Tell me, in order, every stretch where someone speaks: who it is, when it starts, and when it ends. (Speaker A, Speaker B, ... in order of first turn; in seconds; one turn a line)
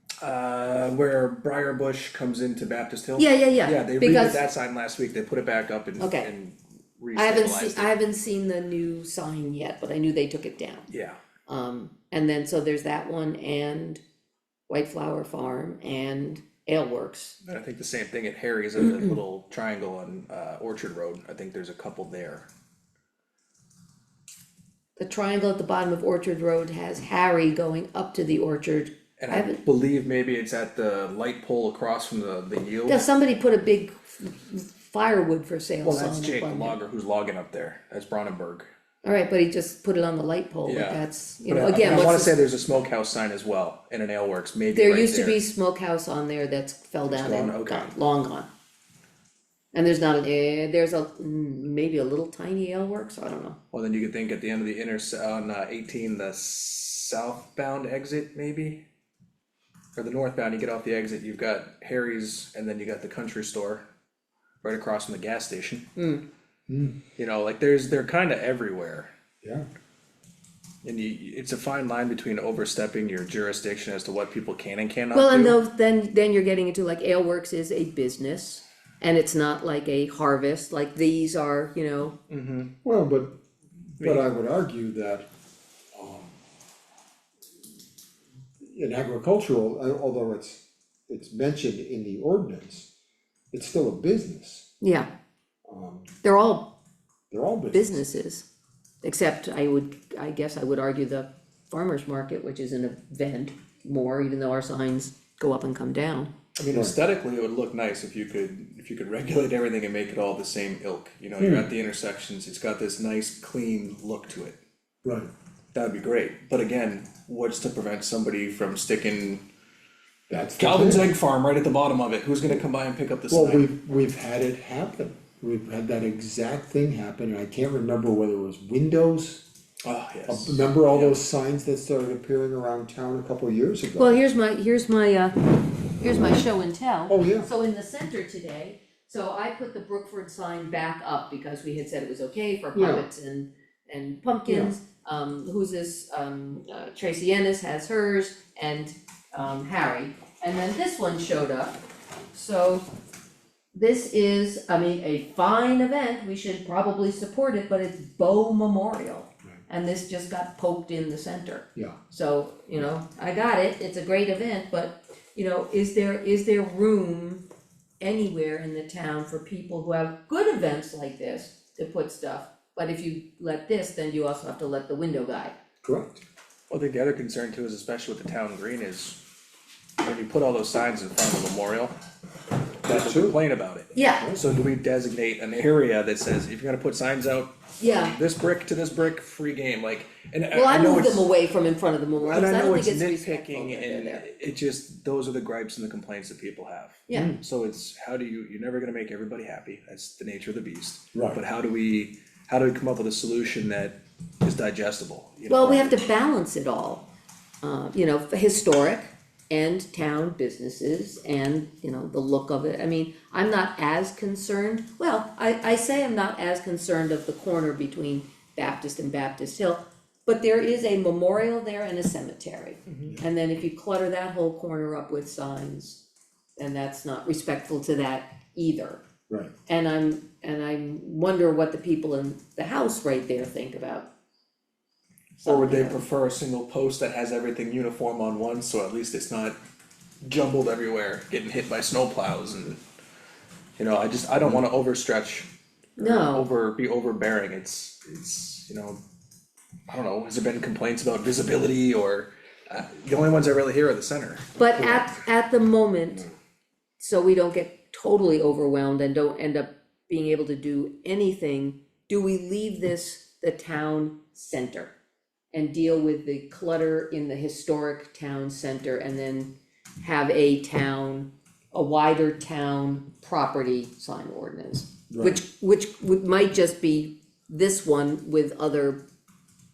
Speaker A: 0.2-7.9
Speaker B: 3.2-4.4
Speaker B: 6.0-6.3
Speaker B: 7.1-10.9
Speaker A: 10.9-11.2
Speaker B: 11.5-14.0
Speaker B: 14.7-17.4
Speaker A: 17.4-22.5
Speaker B: 25.0-29.6
Speaker A: 29.2-33.0
Speaker B: 32.9-36.8
Speaker A: 35.8-38.7
Speaker B: 39.0-42.4
Speaker A: 40.6-45.4
Speaker B: 44.7-48.5
Speaker A: 47.0-47.9
Speaker B: 49.7-53.6
Speaker A: 53.7-58.8
Speaker A: 60.0-63.8
Speaker A: 64.6-65.8
Speaker B: 66.0-66.2
Speaker C: 66.7-67.0
Speaker A: 67.2-69.1
Speaker A: 70.8-75.6
Speaker B: 75.1-82.2
Speaker A: 82.3-82.7
Speaker C: 82.8-83.4
Speaker C: 84.0-85.2
Speaker A: 84.0-84.2
Speaker C: 85.9-86.3
Speaker C: 88.6-92.9
Speaker C: 93.5-94.7
Speaker B: 94.8-95.1
Speaker C: 95.7-96.1
Speaker B: 96.2-96.7
Speaker C: 97.3-98.1
Speaker B: 97.7-98.5
Speaker B: 99.0-106.3
Speaker A: 106.6-114.6
Speaker C: 111.4-111.7
Speaker C: 115.0-115.3
Speaker A: 115.7-119.4
Speaker C: 120.3-121.1
Speaker A: 120.6-123.7
Speaker C: 123.3-129.4
Speaker A: 129.8-131.2
Speaker C: 130.3-134.3
Speaker B: 134.0-151.8
Speaker C: 136.0-136.4
Speaker C: 137.1-137.5
Speaker C: 142.7-143.1
Speaker C: 144.5-144.7
Speaker B: 152.3-152.8
Speaker B: 153.7-167.4
Speaker B: 168.0-175.6
Speaker C: 175.8-176.2
Speaker A: 176.7-179.2
Speaker A: 180.0-181.9
Speaker A: 182.8-191.3
Speaker C: 182.9-183.4
Speaker B: 183.9-184.3
Speaker B: 187.8-188.2
Speaker B: 190.5-194.3
Speaker A: 192.2-206.0
Speaker B: 197.1-197.3
Speaker C: 197.1-197.4
Speaker C: 201.1-201.4
Speaker B: 205.5-207.1
Speaker B: 207.6-226.0
Speaker B: 226.6-229.0
Speaker B: 229.7-234.1
Speaker A: 235.4-239.6
Speaker B: 235.4-236.0
Speaker A: 240.2-242.8
Speaker A: 243.8-249.0
Speaker B: 246.0-246.5
Speaker A: 249.9-254.5
Speaker B: 254.6-256.3
Speaker C: 254.8-255.1
Speaker B: 257.0-264.9
Speaker B: 265.5-279.0
Speaker C: 275.1-275.4